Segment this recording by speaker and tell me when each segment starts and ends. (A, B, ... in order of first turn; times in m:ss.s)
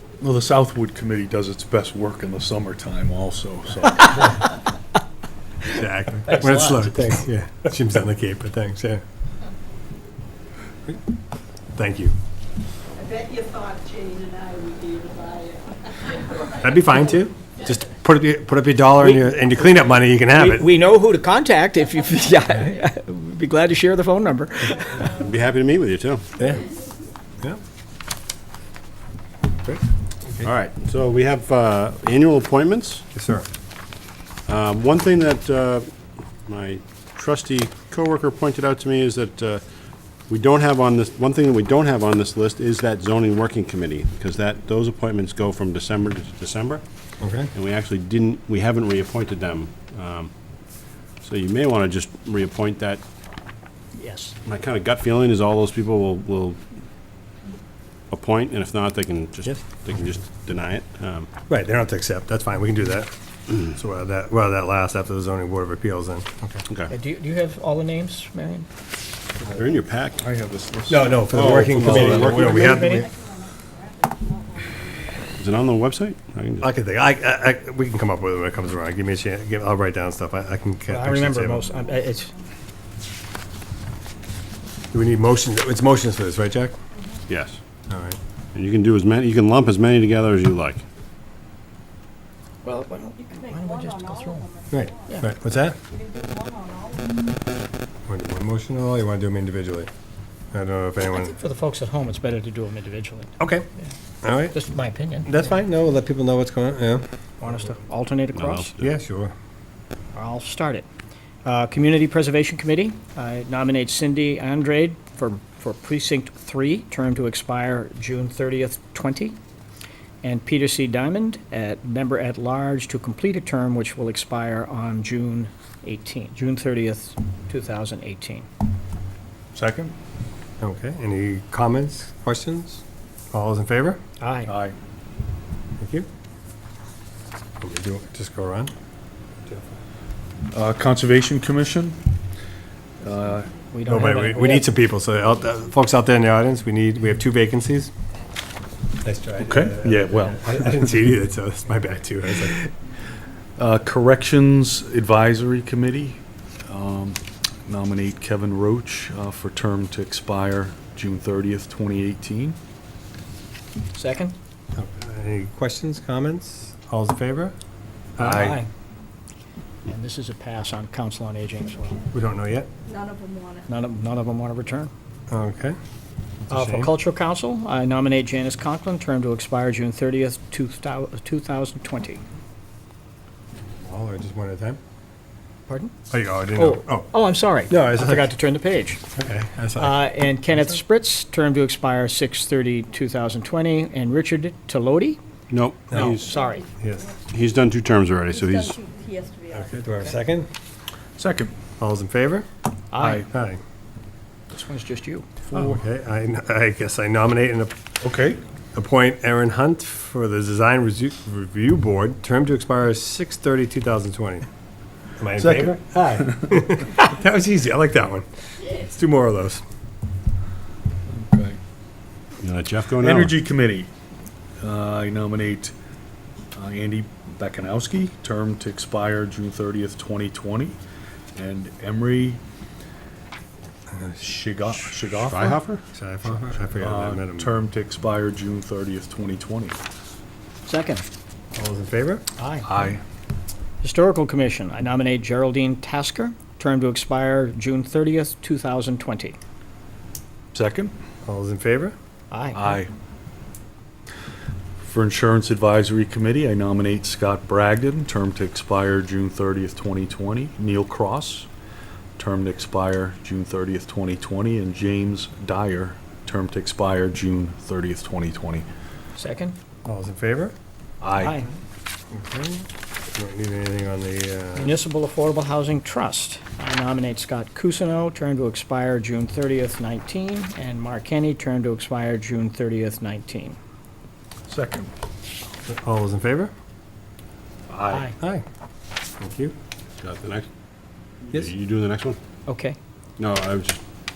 0:00.2-0:04.4 A
0:05.8-0:09.0 B
0:06.4-0:06.8 C
0:11.7-0:12.1 B
0:13.0-0:16.4 D
0:16.6-0:20.7 B
0:19.0-0:19.3 C
0:20.3-0:25.2 C
0:25.2-0:26.2 E
0:26.4-0:26.6 B
0:30.7-0:33.0 E
0:33.1-0:33.4 B
0:34.5-0:35.9 E
0:36.5-0:39.6 E
0:40.3-0:46.8 E
0:47.2-0:47.5 B
0:47.5-0:50.3 E
0:51.2-0:53.0 E
0:53.9-0:54.4 C
0:54.4-0:56.6 E
0:58.1-1:01.3 E
1:01.5-1:06.6 B
1:06.9-1:08.7 C
1:09.5-1:10.2 E
1:10.2-1:12.6 A
1:10.9-1:13.1 B
1:11.4-1:12.4 E
1:11.4-1:13.1 C
1:15.4-1:16.7 E
1:16.6-1:21.7 B
1:20.9-1:22.3 C
1:24.9-1:26.7 B
1:27.3-1:27.6 E
1:27.9-1:28.2 B
1:28.5-1:30.8 E
1:32.6-1:34.5 C
1:34.1-1:34.6 D
1:34.7-1:35.8 B
1:36.4-1:37.1 D
1:38.1-1:39.9 B
1:40.5-1:41.4 B
1:41.1-1:43.3 C
1:43.4-1:43.6 B
1:44.2-1:44.6 B
1:44.5-1:45.3 C
1:45.2-1:47.0 B
1:47.4-1:48.7 C
1:48.3-1:48.8 E
1:48.8-1:49.3 B
1:50.1-1:50.8 C
1:51.4-1:59.4 C
2:00.2-2:08.4 C
2:09.5-2:09.9 A
2:10.6-2:14.0 B
2:14.2-2:14.5 C
2:14.4-2:14.8 A
2:15.8-2:16.0 B
2:17.6-2:18.7 B
2:19.5-2:19.7 B
2:20.5-2:22.0 A
2:23.0-2:23.5 A
2:23.7-2:24.7 C
2:23.8-2:27.9 B
2:29.0-2:32.7 B
2:29.4-2:30.8 A
2:33.6-2:42.6 A
2:43.9-2:44.3 C
2:44.8-2:47.5 B
2:48.2-2:48.7 C
2:48.2-2:48.6 A
2:49.9-2:52.0 C
2:52.1-2:52.7 B
2:52.9-2:53.7 D
2:53.7-2:54.9 C
2:55.3-2:55.8 B
2:56.5-2:56.9 B
2:56.5-3:02.2 C
3:03.8-3:04.8 B
3:05.7-3:06.0 C
3:06.1-3:07.1 B
3:06.5-3:09.0 C
3:07.7-3:08.3 B
3:09.1-3:10.1 B
3:09.8-3:15.2 C
3:15.5-3:16.3 E
3:15.9-3:16.6 C
3:16.8-3:17.2 B
3:17.3-3:18.8 E
3:18.6-3:19.6 D
3:19.5-3:20.5 B
3:21.2-3:21.5 A
3:21.8-3:22.5 B
3:22.9-3:23.3 C
3:23.2-3:23.6 B
3:24.5-3:25.2 C
3:25.5-3:25.8 A
3:25.5-3:27.7 B
3:28.0-3:28.4 A
3:28.7-3:34.4 B
3:35.2-3:39.6 B
3:35.4-3:36.6 A
3:41.1-3:41.6 A
3:42.4-3:43.4 E
3:42.9-3:43.9 A
3:44.6-3:45.7 A
3:46.5-3:50.8 A
3:51.3-3:52.4 A
3:53.9-3:54.3 B
3:54.2-3:55.6 A
3:55.2-3:55.8 E
3:55.9-3:57.6 B
3:56.7-3:59.8 A
4:00.6-4:01.0 C
4:01.5-4:02.2 B
4:02.4-4:02.8 C
4:02.6-4:03.0 A
4:03.8-4:09.4 C
4:10.5-4:11.0 A
4:11.2-4:11.9 B
4:12.3-4:12.8 C
4:12.5-4:12.9 A
4:14.8-4:21.5 A
4:22.2-4:28.7 A
4:29.2-4:29.6 C
4:29.8-4:30.5 B
4:31.0-4:31.4 A
4:31.2-4:31.5 C
4:32.1-4:34.8 B
4:34.6-4:43.6 C
4:44.5-4:44.9 A
4:45.7-4:46.5 B
4:47.7-4:48.0 A
4:47.9-4:48.1 C
4:48.2-4:48.4 B
4:49.2-4:49.5 B
4:50.0-4:50.5 E
4:51.3-4:52.2 E
4:52.5-4:52.8 C
4:53.2-4:53.8 E